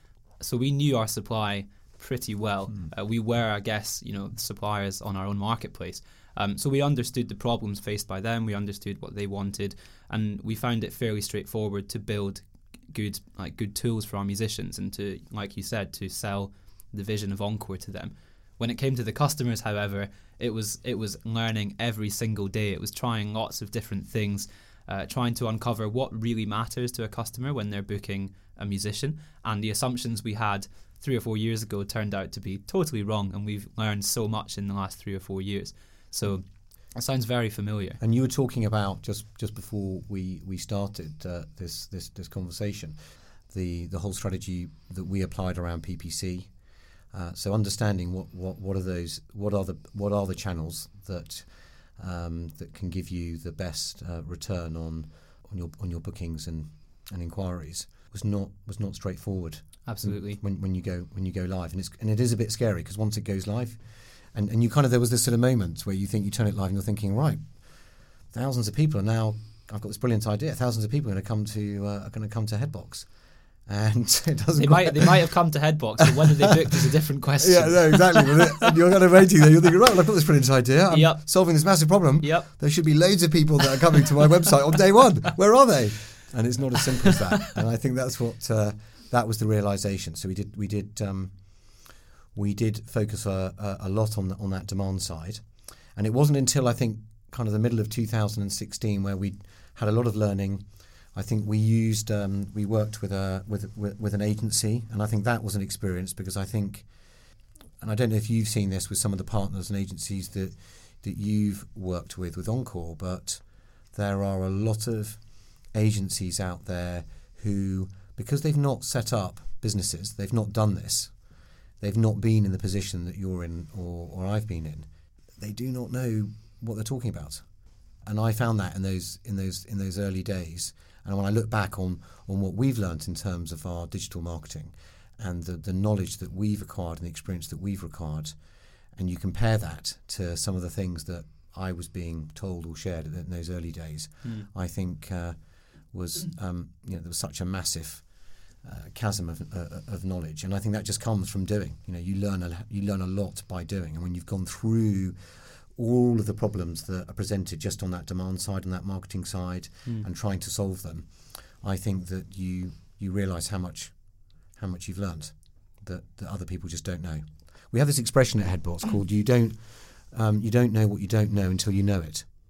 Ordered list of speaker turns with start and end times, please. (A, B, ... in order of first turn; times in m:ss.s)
0:00.4-0:38.0 A
0:38.0-0:43.0 B
0:43.5-0:46.5 B
0:47.1-1:07.4 B
0:59.8-1:00.4 A
1:08.3-1:13.1 B
1:13.6-1:15.3 B
1:14.6-1:18.9 A
1:16.0-1:16.5 B
1:17.4-1:31.3 B
1:20.9-1:21.2 A
1:22.2-1:22.5 A
1:32.3-1:46.9 B
1:47.8-1:55.2 B
1:55.7-2:01.1 B
2:01.8-2:07.4 B
2:08.0-2:18.4 B
2:18.9-2:25.4 B
2:25.9-2:28.1 B
2:28.6-2:43.9 B
2:44.5-2:52.2 B